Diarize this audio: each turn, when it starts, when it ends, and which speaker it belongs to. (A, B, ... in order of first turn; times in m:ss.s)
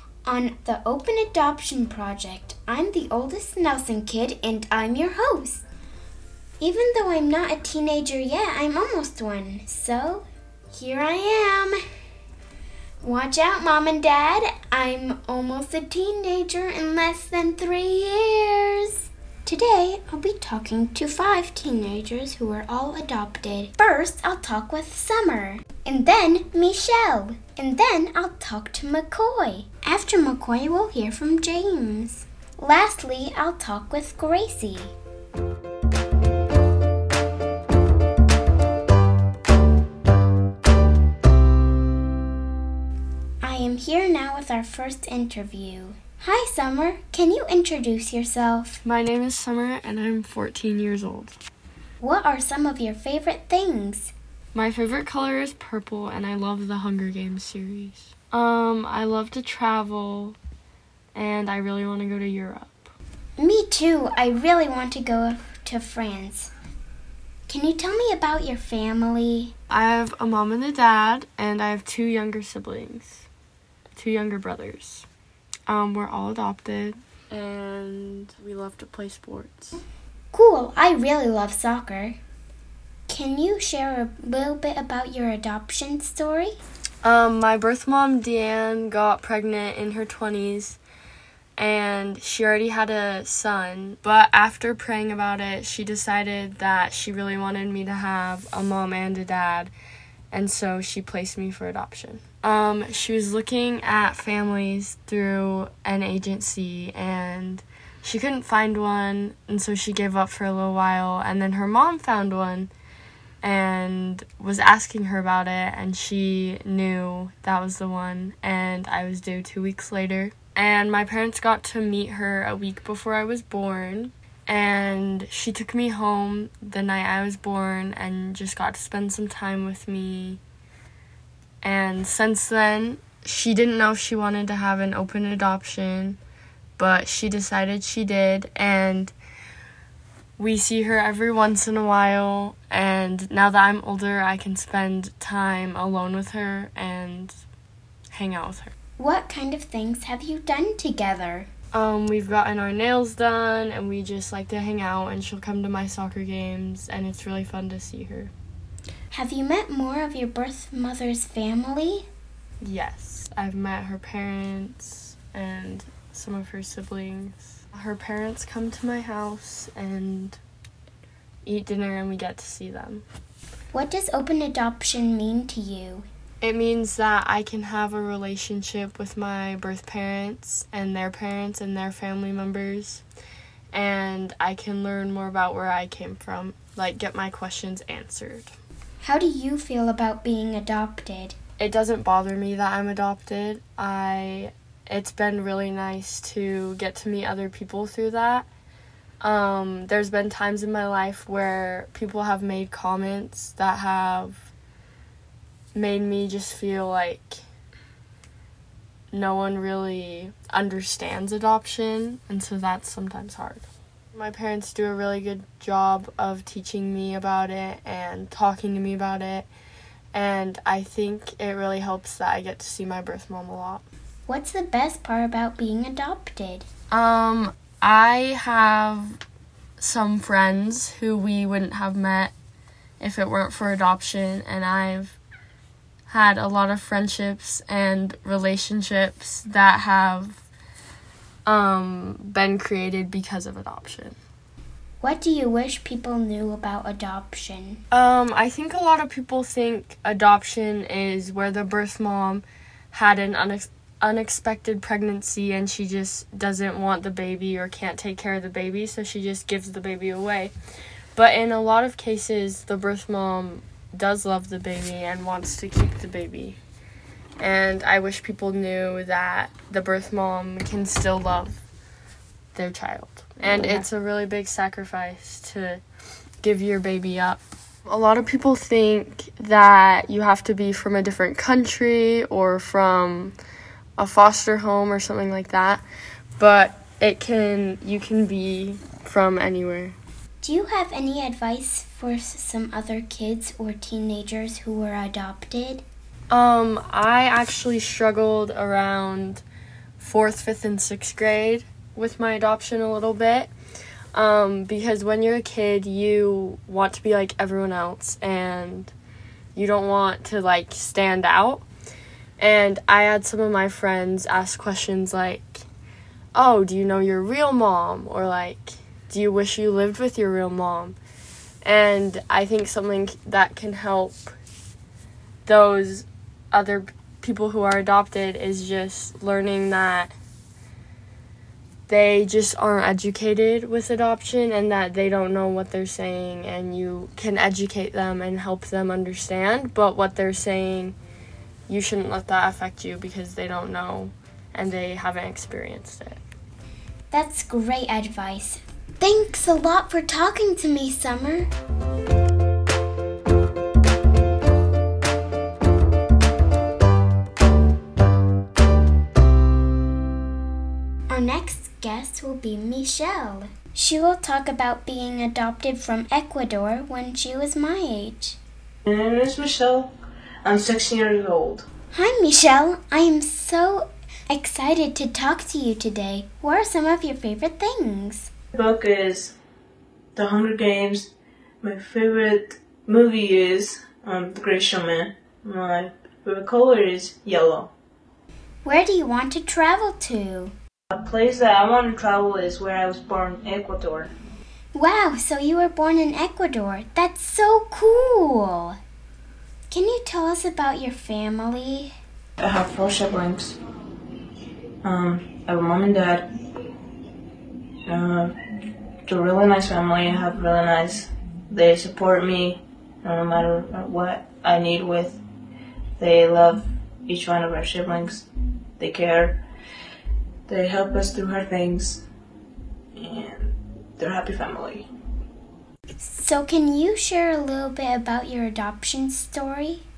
0:00.2-0:05.6 A
0:06.6-0:11.8 A
0:13.0-0:34.9 A
0:43.4-0:48.8 A
0:48.8-0:51.4 B
0:52.0-0:54.1 A
0:54.5-1:00.4 B
1:01.1-1:02.9 B
1:03.4-1:06.5 A
1:07.5-1:09.5 A
1:09.7-1:13.2 B
1:14.0-1:15.0 B
1:15.7-1:19.8 B
1:20.3-1:22.2 A
1:23.1-1:26.6 A
1:27.0-1:30.8 B
1:31.6-1:39.7 B
1:40.3-1:52.7 B
1:53.4-2:10.4 B
2:11.6-2:16.2 B
2:16.8-2:19.1 B
2:20.4-2:27.4 B
2:28.1-2:28.7 B
2:29.0-2:31.5 A
2:31.7-2:38.3 B
2:39.1-2:42.1 A
2:42.6-2:50.4 B
2:51.4-2:53.0 B
2:53.7-2:56.1 A
2:56.4-3:03.0 B
3:03.7-3:08.5 B
3:09.0-3:11.4 A
3:11.6-3:18.5 B
3:19.2-3:24.5 B
3:25.7-3:27.4 B
3:29.1-3:39.5 B
3:40.1-3:43.8 B
3:44.3-3:46.7 A
3:46.9-3:49.2 B
3:49.8-3:52.3 B
3:53.0-3:55.2 B
3:56.1-4:00.4 B
4:01.4-4:04.2 B
4:05.0-4:07.8 A
4:07.9-4:20.5 B
4:21.1-4:26.6 B
4:27.4-4:31.6 B
4:32.5-4:35.8 B
4:36.4-4:43.4 B
4:44.0-4:45.8 B
4:46.4-4:49.9 B
4:50.4-4:55.8 A
4:56.3-4:59.4 B
5:00.0-5:03.5 B
5:04.1-5:08.9 B
5:09.5-5:11.6 B
5:12.4-5:15.6 B
5:16.3-5:21.0 B
5:21.6-5:24.3 B
5:25.4-5:30.1 B
5:31.9-5:41.0 B
5:41.7-5:46.2 B
5:47.1-5:51.5 A
6:01.1-6:08.4 A
6:08.8-6:09.9 C
6:10.4-6:11.7 C
6:11.9-6:18.3 A
6:18.5-6:19.4 C
6:20.1-6:27.7 C
6:28.6-6:30.5 A
6:30.9-6:34.1 C
6:34.7-6:38.8 A
6:39.7-6:41.9 A
6:42.4-6:43.6 C
6:44.8-6:46.3 C
6:47.8-6:48.4 C
6:49.0-6:55.2 C
6:56.0-6:58.2 C
6:58.8-6:59.4 C
7:00.5-7:02.0 C
7:02.9-7:04.9 C
7:06.0-7:09.8 A